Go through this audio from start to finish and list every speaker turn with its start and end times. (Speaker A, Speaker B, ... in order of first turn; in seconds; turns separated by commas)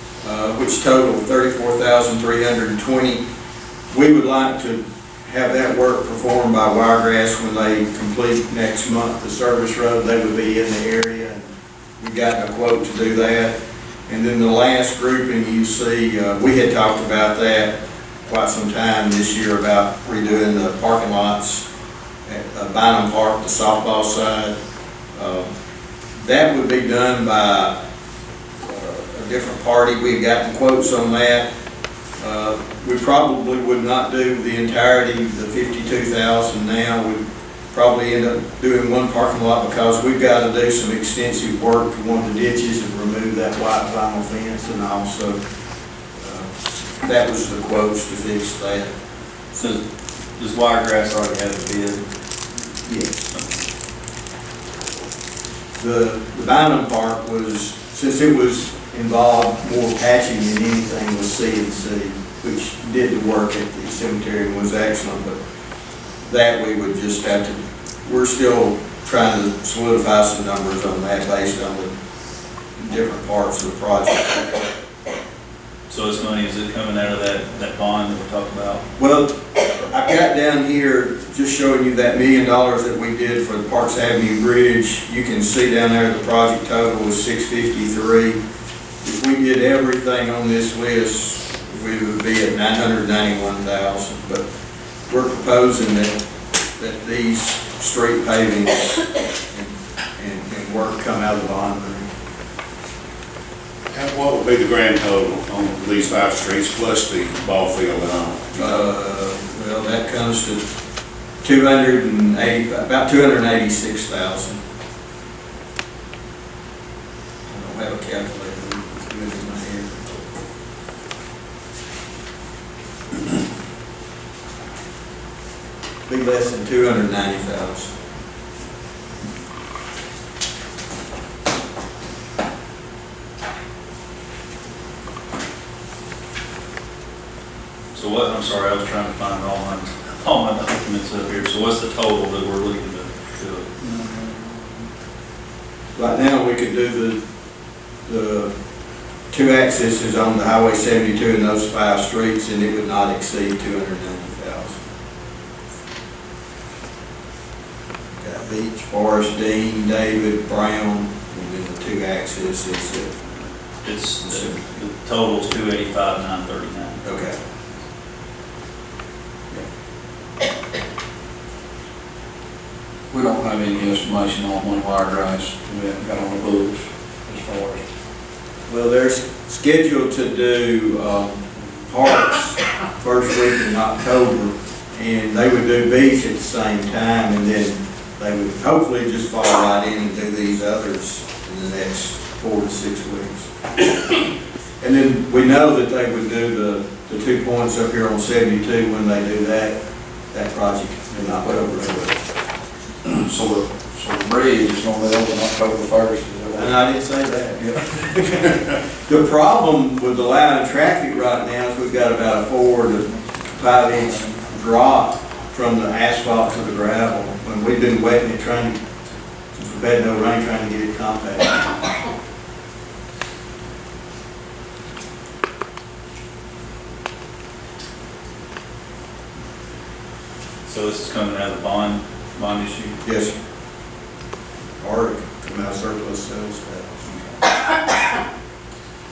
Speaker A: 0.2-3.2, Speaker A: 3.9-13.5, Speaker A: 14.1-17.7, Speaker A: 18.2-21.6, Speaker A: 22.2-24.5, Speaker A: 25.1-25.5, Speaker A: 26.2-27.8, Speaker A: 28.6-31.5, Speaker A: 32.2-45.4, Speaker A: 46.2-48.9, Speaker B: 49.5-49.8, Speaker B: 50.4-52.0, Speaker A: 52.8-53.3, Speaker A: 55.8-65.4, Speaker A: 66.2-71.9, Speaker A: 72.8-74.6, Speaker B: 75.9-78.8, Speaker A: 79.0-88.4, Speaker A: 89.0-94.4, Speaker A: 95.1-96.2, Speaker A: 96.8-102.1, Speaker C: 103.9-108.8, Speaker A: 108.6-110.6, Speaker A: 111.4-114.6, Speaker A: 117.5-120.2, Speaker A: 126.1-127.9, Speaker B: 137.9-143.8, Speaker A: 145.9-147.2, Speaker A: 148.1-148.5, Speaker A: 149.3-154.8, Speaker A: 158.1-163.2, Speaker B: 163.8-167.0, Speaker A: 164.2-164.7, Speaker A: 167.0-167.3, Speaker D: 173.1-177.8, Speaker A: 178.7-194.1, Speaker A: 194.8-199.8, Speaker A: 200.3-202.2, Speaker D: 201.4-201.7, Speaker D: 203.0-206.7, Speaker A: 206.5-218.8, Speaker A: 219.5-221.8, Speaker B: 230.7-232.9, Speaker A: 233.0-233.3, Speaker A: 234.8-237.4